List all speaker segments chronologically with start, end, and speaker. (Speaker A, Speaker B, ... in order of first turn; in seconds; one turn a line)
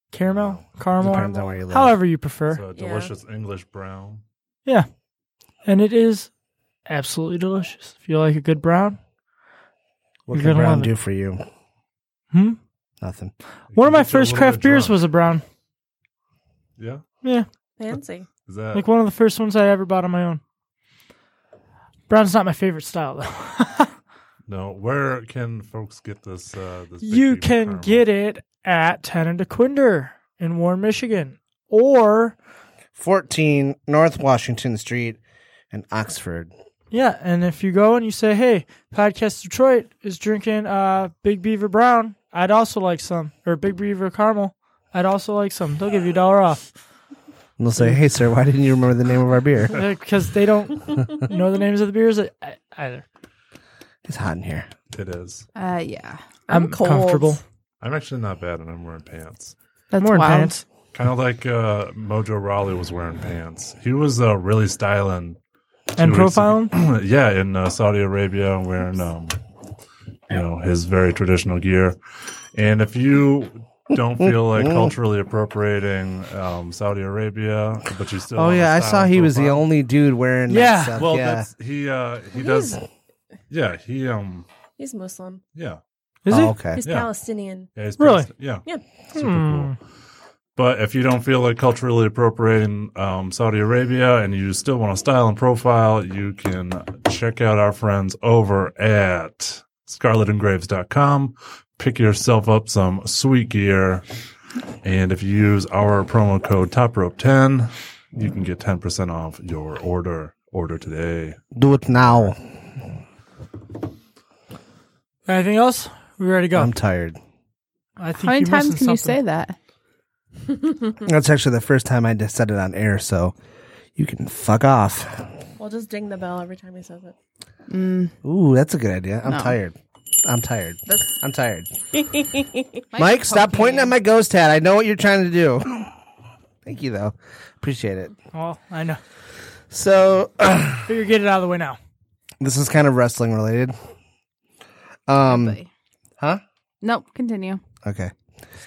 Speaker A: 0.1-2.6
Speaker B: 0.3-0.6
Speaker C: 1.0-2.0
Speaker B: 2.5-4.2
Speaker D: 2.8-3.1
Speaker A: 5.7-6.3
Speaker A: 6.9-9.0
Speaker C: 10.3-11.4
Speaker A: 10.3-10.9
Speaker A: 12.3-12.6
Speaker C: 13.0-13.3
Speaker B: 13.7-15.0
Speaker A: 13.8-15.4
Speaker B: 16.8-17.0
Speaker D: 17.8-18.3
Speaker B: 18.5-18.9
Speaker A: 18.7-20.4
Speaker A: 22.1-23.9
Speaker B: 24.5-28.1
Speaker A: 27.0-32.4
Speaker C: 33.0-35.2
Speaker C: 35.7-36.5
Speaker A: 36.9-46.6
Speaker C: 47.6-49.8
Speaker A: 49.7-53.0
Speaker C: 54.0-54.7
Speaker B: 54.9-55.5
Speaker E: 55.5-56.2
Speaker D: 56.5-57.4
Speaker A: 56.5-57.4
Speaker B: 57.8-59.5
Speaker E: 59.9-60.6
Speaker A: 60.0-60.6
Speaker B: 60.9-65.4
Speaker A: 66.0-66.7
Speaker B: 66.0-69.4
Speaker B: 70.3-72.0
Speaker B: 72.5-79.6
Speaker C: 74.2-74.9
Speaker C: 78.3-81.5
Speaker A: 80.5-81.0
Speaker B: 81.0-82.8
Speaker D: 82.4-82.8
Speaker B: 83.5-84.5
Speaker D: 84.8-85.4
Speaker B: 85.5-85.8
Speaker A: 86.2-86.5
Speaker C: 86.3-86.8
Speaker D: 86.8-87.7
Speaker B: 86.8-87.1
Speaker B: 87.7-89.8
Speaker A: 88.0-88.3
Speaker A: 89.2-89.8
Speaker B: 90.6-104.0
Speaker B: 104.8-111.4
Speaker C: 111.5-112.4
Speaker B: 112.0-112.3
Speaker A: 115.3-116.7
Speaker C: 116.5-117.2
Speaker A: 118.0-119.2
Speaker E: 118.2-119.5
Speaker C: 121.0-123.3
Speaker C: 124.0-125.3
Speaker D: 125.6-127.2
Speaker E: 127.7-128.1
Speaker C: 128.2-131.7
Speaker E: 129.3-129.6
Speaker D: 131.9-132.8
Speaker E: 132.9-133.9
Speaker C: 133.0-135.9
Speaker C: 136.7-138.1
Speaker A: 138.3-139.0
Speaker C: 139.7-140.9
Speaker A: 140.9-141.8
Speaker C: 142.4-143.7
Speaker C: 145.1-145.6
Speaker E: 145.2-145.7
Speaker E: 146.8-147.6
Speaker C: 147.8-148.1